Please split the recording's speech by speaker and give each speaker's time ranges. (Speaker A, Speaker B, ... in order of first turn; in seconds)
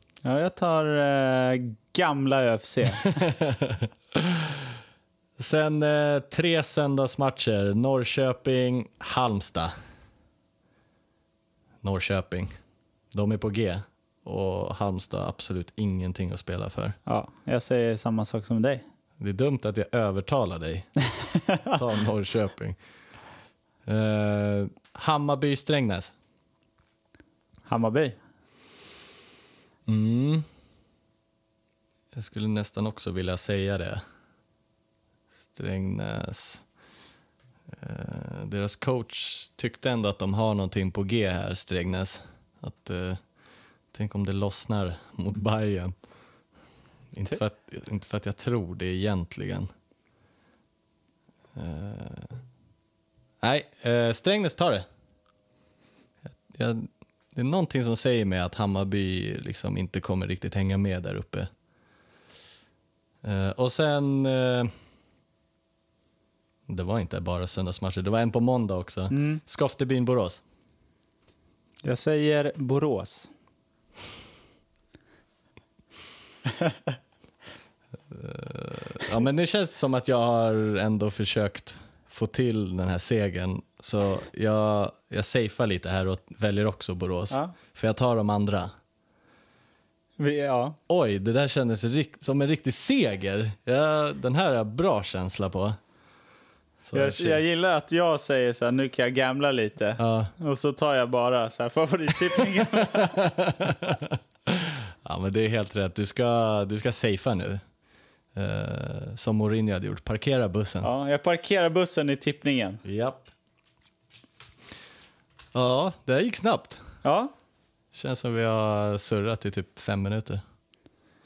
Speaker A: 0.2-3.1, 17.1-18.8, 27.7-28.2, 69.1-69.4, 71.8-73.3, 90.2-90.8, 96.9-103.2, 110.8-112.8, 117.0-117.3
Speaker B: 3.0-4.5, 5.4-9.7, 11.8-12.5, 13.1-16.9, 19.2-20.9, 21.7-22.8, 23.9-26.1, 29.9-30.4, 32.1-34.0, 35.5-36.6, 37.8-43.2, 43.9-45.9, 47.1-49.7, 51.5-52.4, 53.4-54.8, 56.4-61.5, 63.2-64.7, 66.7-70.4, 78.1-88.7, 90.9-95.8, 96.9-97.4, 100.0-100.3, 102.8-107.6, 108.3-110.9, 112.8-113.3, 115.5-116.8, 117.9-120.4